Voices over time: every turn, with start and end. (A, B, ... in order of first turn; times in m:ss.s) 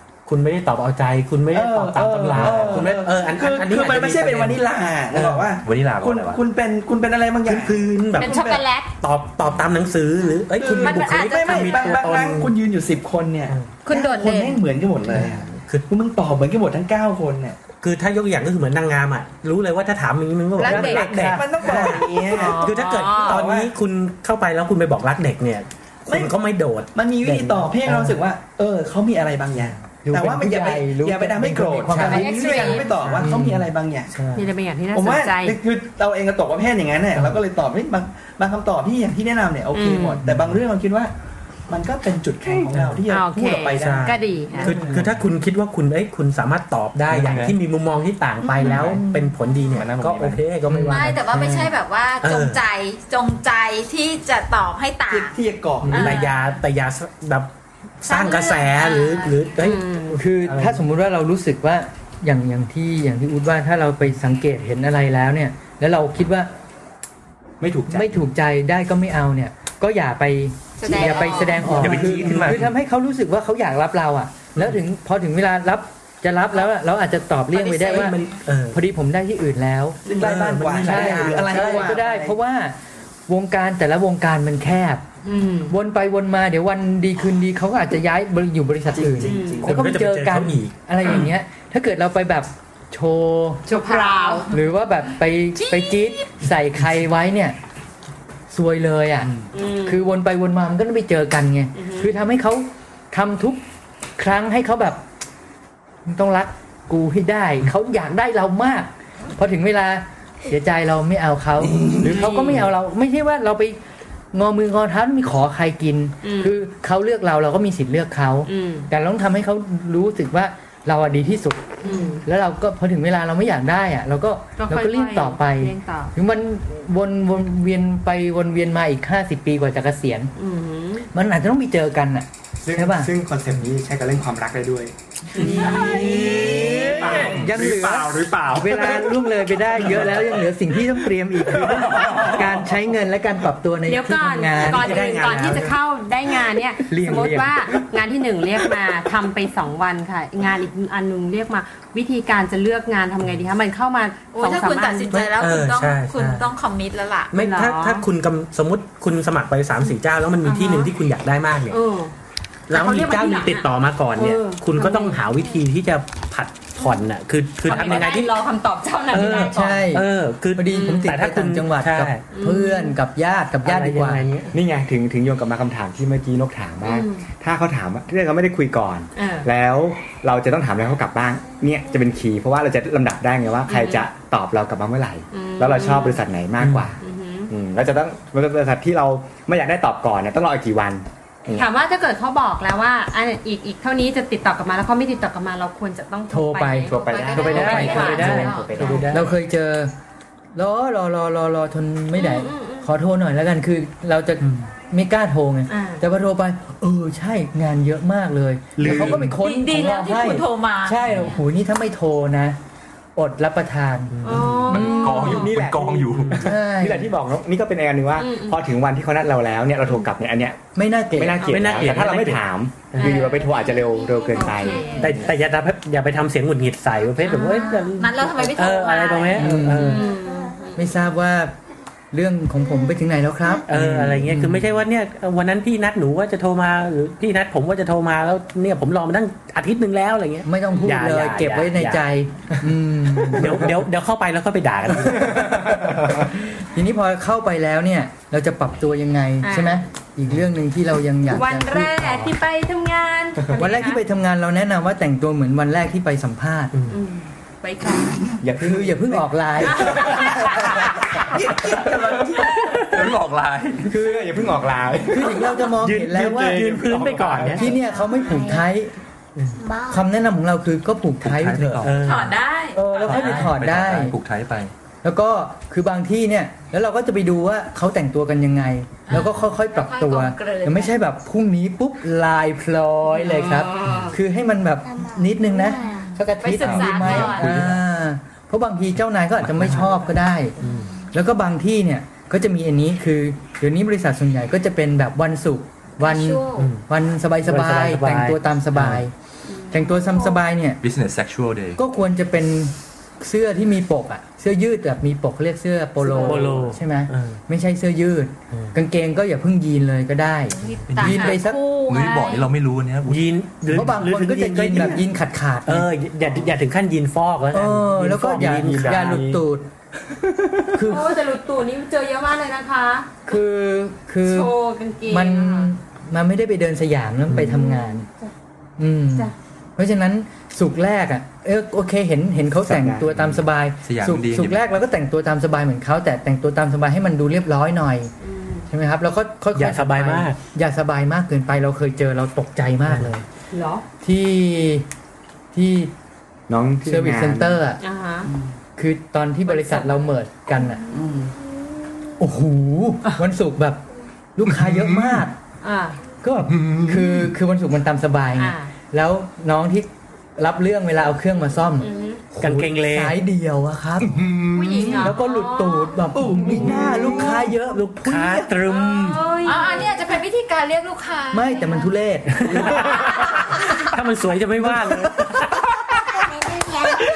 0:00.2-0:04.6 A
0:01.5-0:08.7 B
0:05.1-0:05.5 A
0:05.6-0:06.4 C
0:07.4-0:08.4 A
0:08.2-0:08.9 D
0:09.0-0:12.5 A
0:10.6-0:17.6 B
0:10.8-0:12.0 E
0:13.9-0:14.6 E
0:15.1-0:15.8 A
0:17.8-0:28.2 A
0:20.6-0:22.0 F
0:20.6-0:23.7 B
0:20.7-0:21.0 E
0:22.3-0:23.4 D
0:26.1-0:26.4 B
0:26.9-0:34.2 B
0:30.0-0:32.4 F
0:31.9-0:32.3 A
0:32.0-0:32.9 D
0:32.1-0:32.9 E
0:32.9-0:33.3 A
0:33.2-0:33.7 F
0:34.1-0:34.5 A
0:34.4-0:35.6 D
0:34.9-0:41.1 B
0:39.7-0:40.2 D
0:40.3-0:40.5 A
0:41.7-0:45.0 B
0:42.7-0:43.0 A
0:43.1-0:44.8 D
0:43.8-0:51.7 A
0:47.1-0:47.5 C
0:48.4-0:49.3 B
0:49.8-0:50.4 G
0:50.7-0:51.1 F
0:50.9-0:55.4 E
0:52.2-0:52.6 A
0:55.1-0:56.2 B
0:55.9-0:57.5 A
0:55.9-0:56.5 E
0:58.0-1:00.8 A
0:58.0-0:59.3 E
0:59.6-1:00.1 D
1:00.1-1:06.5 F
1:07.6-1:08.1 G
1:07.9-1:18.2 F
1:10.8-1:11.8 E
1:10.9-1:12.7 A
1:11.8-1:12.7 C
1:17.6-1:18.8 A
1:18.7-1:22.8 F
1:20.0-1:22.4 B
1:20.1-1:21.9 A
1:23.3-1:25.0 F
1:25.2-1:25.7 D
1:25.7-1:33.6 F
1:28.9-1:29.8 B
1:29.2-1:29.6 D
1:29.6-1:30.7 A
1:33.7-1:34.5 D
1:33.7-1:34.6 E
1:34.5-1:37.6 F
1:35.6-1:36.2 E
1:38.5-1:39.3 F
1:39.5-1:40.0 D
1:39.8-1:43.6 F
1:41.8-1:42.1 D
1:44.2-1:45.0 F
1:46.0-1:53.8 F
1:51.6-1:52.2 B
1:52.0-1:52.7 D
1:54.3-2:10.3 F
1:56.2-1:56.5 D
1:58.5-1:58.9 D
2:01.8-2:02.2 D
2:04.6-2:06.1 D
2:10.4-2:11.0 D
2:11.1-2:13.1 F
2:12.6-2:14.9 G
2:15.4-2:16.9 D
2:15.4-2:25.7 F
2:15.6-2:19.3 G
2:16.0-2:17.0 A
2:17.1-2:17.5 C
2:23.9-2:35.2 D
2:24.8-2:25.5 G
2:26.9-2:27.7 F
2:34.3-2:37.3 E
2:35.1-2:36.5 A
2:37.3-2:41.8 A
2:37.3-2:38.0 D
2:40.4-2:40.9 D
2:41.7-2:42.1 D
2:42.7-2:48.4 A
2:42.7-2:45.2 D
2:47.6-2:49.8 D
2:49.1-2:52.2 A
2:49.3-2:54.3 F
2:50.8-2:51.0 D
2:52.3-2:52.9 D
2:53.6-2:54.5 A
2:54.5-3:11.7 G
2:56.8-2:57.2 D
2:59.2-2:59.5 D
3:03.7-3:04.1 D
3:05.3-3:06.2 D
3:06.6-3:06.9 A
3:07.0-3:07.5 D
3:11.5-3:19.1 D
3:16.3-3:18.5 F
3:16.9-3:19.3 G
3:16.9-3:19.1 E
3:17.3-3:19.3 A
3:19.1-3:19.9 F
3:20.5-3:32.6 F
3:22.2-3:22.9 D
3:24.4-3:24.7 A
3:25.7-3:26.0 D
3:28.8-3:29.4 A
3:28.9-3:29.2 C
3:28.9-3:31.4 E
3:33.2-3:34.2 F
3:34.1-3:34.8 A
3:34.2-3:35.5 D
3:34.6-3:36.4 C
3:34.8-3:35.3 F
3:35.2-3:45.2 G
3:36.1-3:36.4 A
3:36.3-3:37.1 F
3:38.2-3:38.6 D
3:40.7-3:41.6 F
3:41.4-3:43.2 A
3:42.9-3:45.1 D
3:44.4-3:45.2 E
3:45.0-3:50.1 A
3:47.2-3:47.9 D
3:47.3-3:49.6 E
3:49.4-3:50.0 F
3:49.7-3:50.9 D
3:50.8-3:51.6 F
3:52.1-3:54.8 F
3:53.7-4:02.0 A
4:00.4-4:03.7 F
4:03.3-4:05.6 A
4:05.5-4:12.3 F
4:09.4-4:09.8 D
4:11.3-4:14.0 D
4:13.6-4:16.7 F
4:16.7-4:17.0 A
4:16.9-4:18.4 D
4:18.4-4:20.2 G
4:18.6-4:20.1 F
4:19.6-4:20.7 D
4:20.5-4:23.0 B
4:22.9-4:23.9 C
4:23.9-4:25.7 G
4:23.9-4:24.2 F
4:25.1-4:28.9 F
4:25.8-4:27.8 A
4:26.3-4:27.7 G
4:27.9-4:28.6 H
4:29.4-4:29.6 A
4:29.6-4:30.0 H
4:29.9-4:31.9 F
4:31.2-4:32.2 C
4:31.8-4:32.4 A
4:32.0-4:33.2 E
4:32.7-4:34.2 F
4:33.0-4:34.7 C
4:33.1-4:33.4 A
4:35.0-4:50.5 F
4:39.1-4:41.0 E
4:43.1-4:44.1 D
4:44.9-4:46.0 H
4:46.4-4:47.7 E
4:46.6-4:47.8 C
4:50.6-4:50.9 A
4:51.1-4:59.1 F
4:56.0-4:56.7 E
4:56.5-4:56.8 A
4:57.4-4:59.0 A
4:59.5-4:59.8 D
4:59.7-5:00.8 F
5:00.8-5:01.8 C
5:01.8-5:11.6 F
5:06.0-5:07.4 A
5:10.5-5:12.5 E
5:11.0-5:13.2 C
5:13.1-5:15.1 A
5:13.7-5:15.9 F
5:15.6-5:19.4 A
5:17.5-5:19.7 F
5:18.3-5:19.2 G
5:20.2-5:20.7 G
5:20.7-5:21.2 F
5:20.9-5:23.3 D
5:23.2-5:24.5 F
5:24.2-5:25.7 D
5:25.1-5:28.1 F
5:27.4-5:28.3 D
5:28.8-5:38.1 F
5:32.6-5:33.1 G
5:33.2-5:34.7 C
5:38.2-5:38.7 D
5:38.7-5:43.2 F
5:39.5-5:40.4 A
5:42.9-5:43.2 A
5:43.5-5:43.8 D
5:44.0-5:44.9 F
5:45.5-5:45.9 F
5:46.5-5:47.6 G
5:46.8-5:47.8 F
5:47.8-5:48.3 D
5:48.8-5:50.8 F
5:49.5-5:50.0 D
5:50.9-5:51.3 B
5:52.2-5:53.8 F
5:54.4-5:55.4 F
5:54.5-5:55.2 C
5:55.6-5:56.0 D
5:56.2-6:04.2 F
5:56.5-5:57.3 C
5:58.4-5:58.7 D
6:01.8-6:02.2 D
6:02.4-6:03.2 A
6:04.0-6:05.1 C
6:04.6-6:06.1 D
6:04.6-6:05.0 E
6:05.0-6:08.5 F
6:06.1-6:07.5 B
6:06.8-6:09.3 A
6:08.6-6:09.9 D
6:09.4-6:11.9 E
6:11.3-6:12.8 F
6:12.3-6:15.6 A
6:13.2-6:13.9 E
6:14.6-6:15.1 F
6:16.3-6:17.0 H